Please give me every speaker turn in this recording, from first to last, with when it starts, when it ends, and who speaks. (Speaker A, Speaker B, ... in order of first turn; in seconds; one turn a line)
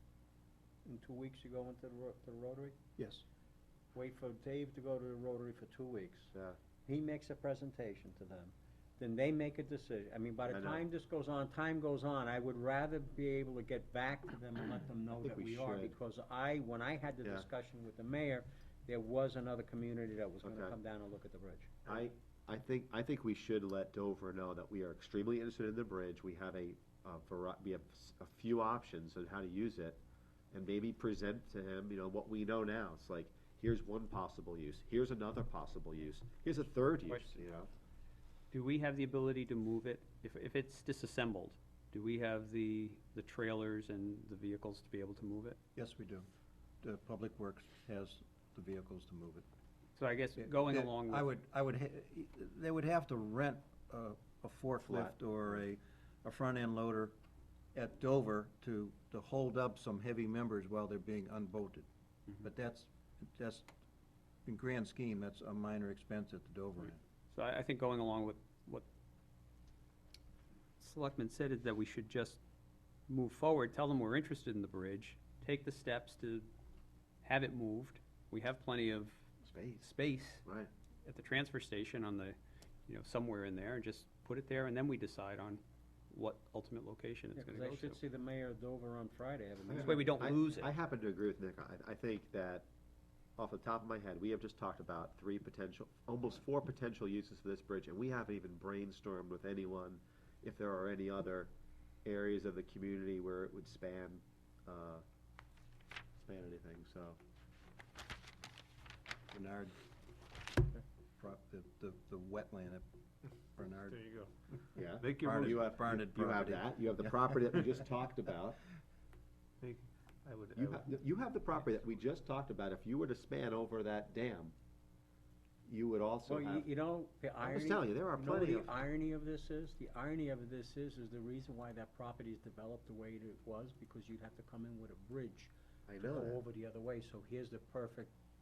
Speaker A: 0.8-2.8
Speaker B: 3.0-3.2
Speaker A: 3.9-6.3
Speaker A: 6.8-21.9
Speaker C: 10.5-10.8
Speaker C: 15.2-15.9
Speaker C: 20.4-20.8
Speaker C: 21.9-30.0
Speaker C: 30.5-37.7
Speaker D: 37.0-37.4
Speaker D: 38.5-45.6
Speaker B: 45.8-46.3
Speaker B: 46.8-49.5
Speaker D: 50.0-51.3
Speaker B: 50.4-57.1
Speaker B: 57.7-61.9
Speaker B: 62.4-63.7
Speaker B: 64.5-67.0
Speaker D: 67.3-68.9
Speaker D: 70.8-72.4
Speaker D: 73.1-76.5
Speaker D: 77.2-79.3
Speaker C: 79.5-79.9
Speaker D: 79.8-80.5
Speaker C: 80.5-80.7
Speaker D: 81.0-82.4
Speaker D: 82.9-88.0
Speaker A: 87.4-90.7
Speaker C: 89.7-92.7
Speaker D: 89.7-90.7
Speaker C: 93.4-101.5
Speaker C: 102.0-105.0
Speaker C: 106.2-107.2
Speaker B: 109.3-109.7
Speaker B: 111.2-112.8
Speaker B: 113.5-114.0
Speaker E: 113.9-114.3
Speaker C: 114.8-118.6
Speaker E: 115.0-115.9
Speaker B: 115.2-117.2
Speaker E: 119.6-120.9
Speaker C: 120.5-124.5
Speaker C: 125.7-126.7
Speaker A: 126.3-135.5
Speaker C: 127.4-128.8
Speaker C: 135.9-136.4
Speaker A: 136.0-138.1